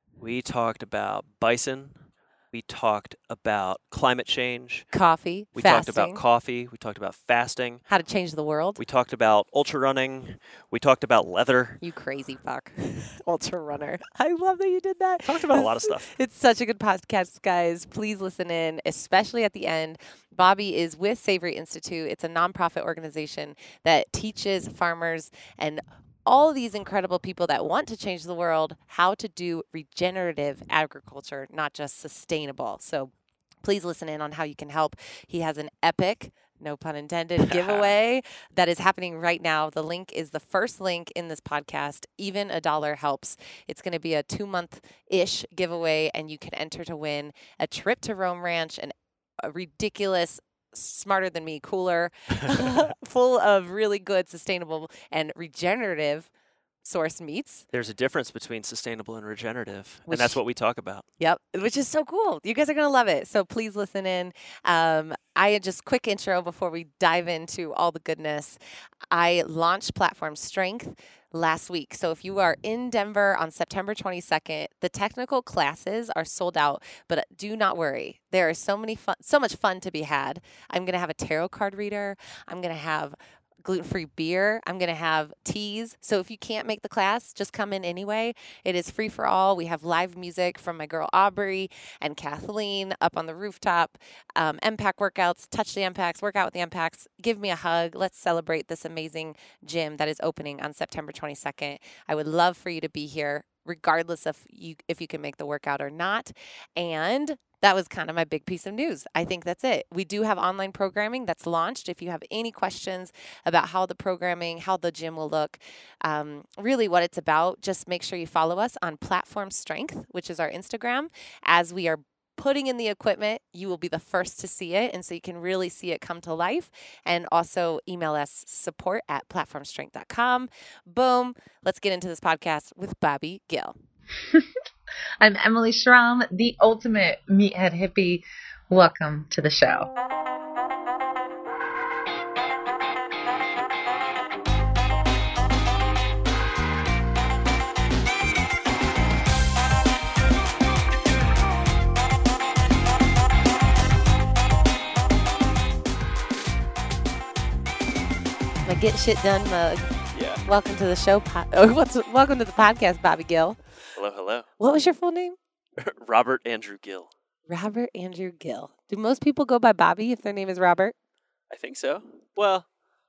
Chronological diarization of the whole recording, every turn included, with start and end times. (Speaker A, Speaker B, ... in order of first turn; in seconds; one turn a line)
Speaker A: 0.2-2.0
Speaker A: 2.5-4.9
Speaker B: 4.9-6.2
Speaker A: 5.6-7.8
Speaker B: 7.9-8.8
Speaker A: 8.8-11.8
Speaker B: 11.8-33.1
Speaker A: 15.3-16.1
Speaker B: 33.6-56.3
Speaker A: 37.5-37.9
Speaker B: 56.8-57.7
Speaker A: 57.7-61.0
Speaker B: 60.1-60.4
Speaker B: 61.2-68.6
Speaker B: 69.1-133.8
Speaker C: 135.2-139.9
Speaker B: 158.7-163.6
Speaker A: 160.1-160.4
Speaker A: 164.0-164.5
Speaker B: 164.6-165.4
Speaker A: 165.8-167.1
Speaker B: 167.5-170.9
Speaker A: 171.5-172.7